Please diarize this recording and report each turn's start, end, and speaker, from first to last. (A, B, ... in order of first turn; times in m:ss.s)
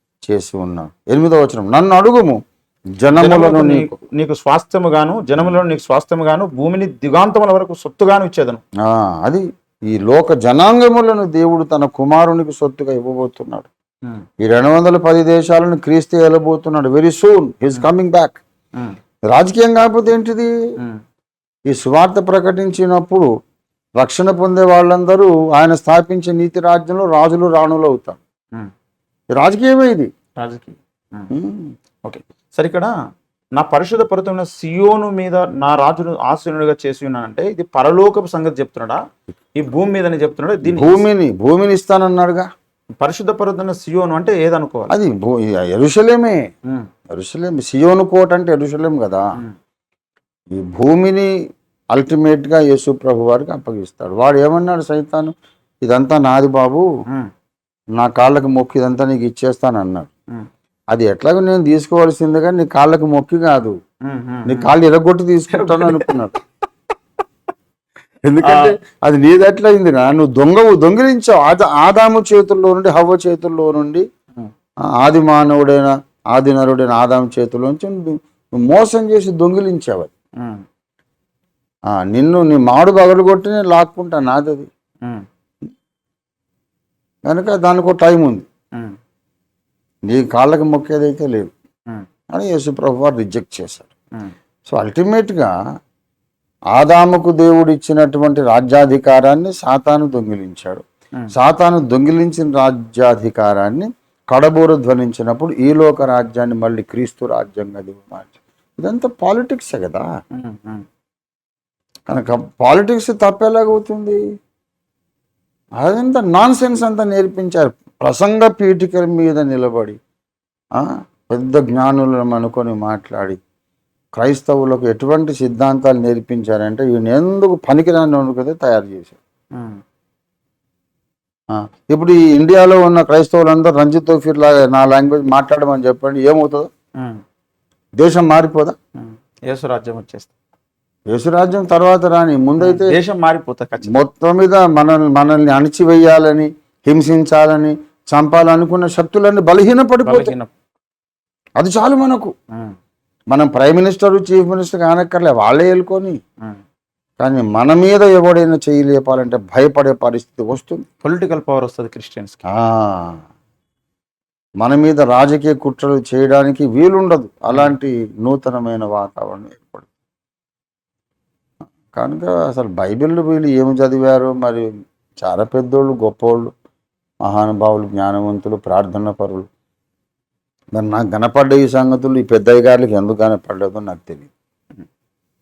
0:00.2-0:02.4 A
0:03.0-0:03.9 A
0:03.2-0:08.6 B
0:08.8-0:13.7 A
0:14.4-0:18.4 A
0:19.3-0:20.5 A
0:21.7-0:23.3 A
0:24.0-0:28.2 A
0:29.4-0:30.1 A
0:30.4-0:31.3 B
0:31.3-0:31.7 A
0:32.0-0:32.9 B
0:33.6-0:39.0 B
0:39.6-0:41.0 B
0:40.6-0:42.5 A
0:43.0-0:44.9 B
0:44.9-0:46.4 A
0:47.1-0:49.2 A
0:50.5-0:51.3 A
0:51.9-0:56.9 A
0:58.0-1:00.1 A
1:00.9-1:03.8 A
1:04.0-1:04.7 B
1:04.5-1:06.4 A
1:05.5-1:06.2 B
1:08.3-1:14.0 A
1:08.4-1:08.8 B
1:15.0-1:20.1 A
1:21.9-1:24.7 A
1:27.3-1:28.5 A
1:30.1-1:31.5 A
1:32.3-1:33.9 A
1:34.7-1:35.5 A
1:36.8-1:50.0 A
1:50.4-1:50.8 B
1:52.1-1:54.2 A
1:55.8-2:00.0 A
2:00.8-2:03.4 A
2:04.2-2:09.2 A
2:09.6-2:09.8 B
2:11.5-2:16.7 A
2:18.0-2:18.8 A
2:19.0-2:20.3 B
2:21.1-2:23.0 A
2:22.6-2:23.9 B
2:23.9-2:30.3 A
2:30.0-2:30.5 B
2:31.6-2:32.3 A
2:33.3-2:36.2 A
2:37.2-2:40.8 A
2:41.0-2:42.4 B
2:42.5-2:43.2 A
2:44.6-2:49.9 A
2:51.9-2:54.7 A
2:55.2-2:56.5 A
2:57.2-2:59.5 A
3:00.7-3:04.3 A